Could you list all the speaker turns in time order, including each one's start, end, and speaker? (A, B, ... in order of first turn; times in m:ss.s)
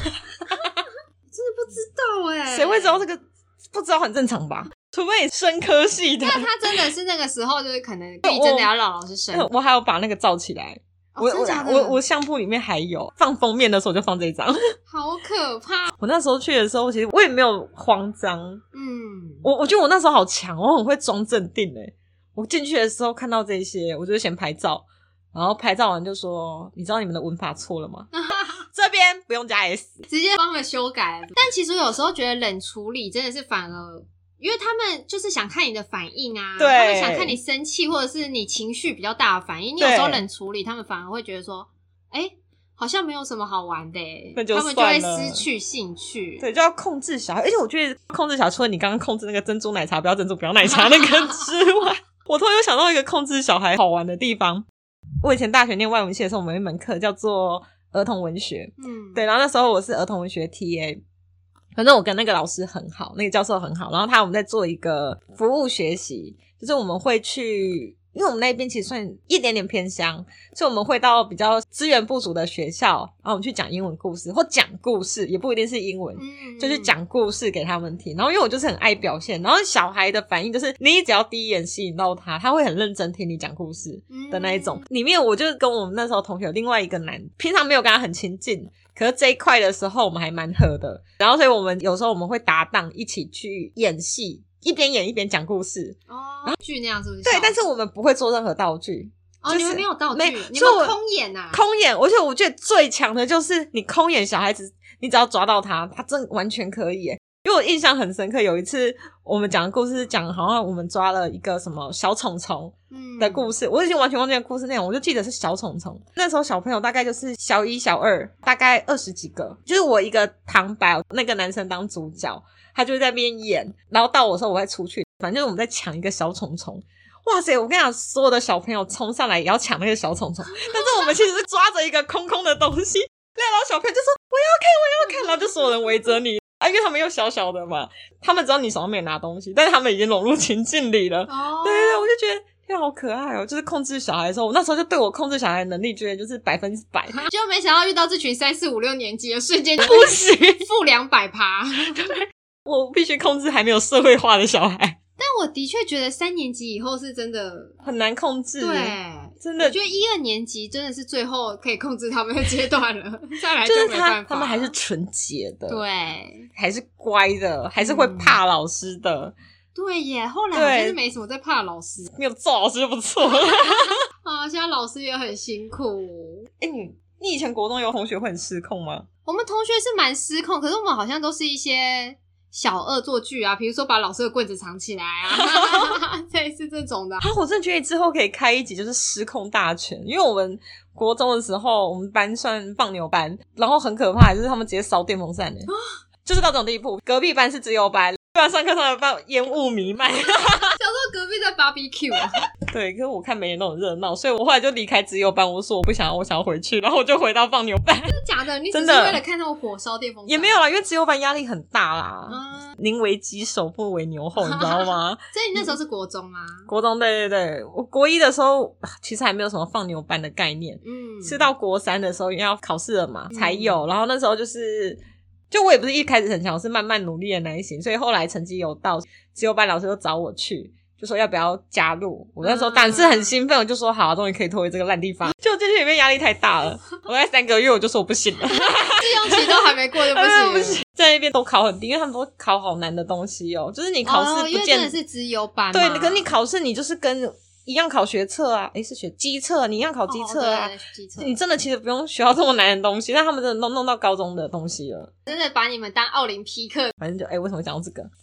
0:00.4-0:00.8 A
0:01.3-0:03.0 B
0:02.5-0:06.8 A
0:06.2-0:09.5 B
0:08.2-0:08.7 A
0:09.3-0:14.6 A
0:11.2-0:12.0 B
0:14.9-0:15.9 B
0:16.0-0:18.6 A
0:18.7-0:19.5 B
0:19.4-0:28.1 A
0:28.1-0:28.6 B
0:28.7-0:30.0 A
0:30.1-0:46.4 B
0:36.6-0:37.4 A
0:39.8-0:40.2 A
0:44.4-0:45.5 A
0:46.4-0:54.7 A
0:50.7-0:51.4 B
0:55.2-1:01.0 A
0:58.8-0:59.2 B
1:01.8-1:36.6 A
1:16.2-1:17.0 B
1:24.1-1:24.8 B
1:36.1-1:37.6 B
1:37.2-1:41.0 A
1:39.4-1:41.6 B
1:41.5-2:27.2 A
1:52.9-1:53.5 B
2:10.6-2:10.9 B
2:21.3-2:22.1 B
2:27.2-2:32.1 B
2:29.8-2:30.6 A
2:31.9-2:35.0 A
2:35.2-2:37.8 B
2:37.8-2:39.8 A
2:38.6-2:44.7 B
2:43.6-2:45.8 A
2:45.7-2:46.5 B
2:46.5-2:49.3 A
2:47.8-2:48.4 B
2:49.8-2:52.1 B
2:50.5-2:51.0 A
2:52.1-2:54.0 A
2:53.4-2:56.5 B
2:56.6-2:59.1 A
2:59.2-3:07.2 B
3:05.3-3:06.0 A
3:07.2-3:15.7 A
3:16.3-3:20.8 A
3:20.8-3:22.4 B
3:22.7-3:28.2 A
3:28.1-3:30.6 B
3:28.7-3:29.2 A
3:30.3-3:35.8 A
3:32.3-3:32.8 B
3:34.4-3:36.7 B
3:36.7-3:45.0 A
3:40.8-3:41.5 B
3:43.3-3:43.8 B
3:45.5-4:05.0 A
3:52.4-3:53.3 B
3:58.5-4:00.8 B
4:04.0-4:06.3 B
4:05.7-4:15.1 A
4:10.1-4:11.3 B
4:15.3-4:17.0 B
4:17.0-4:18.1 A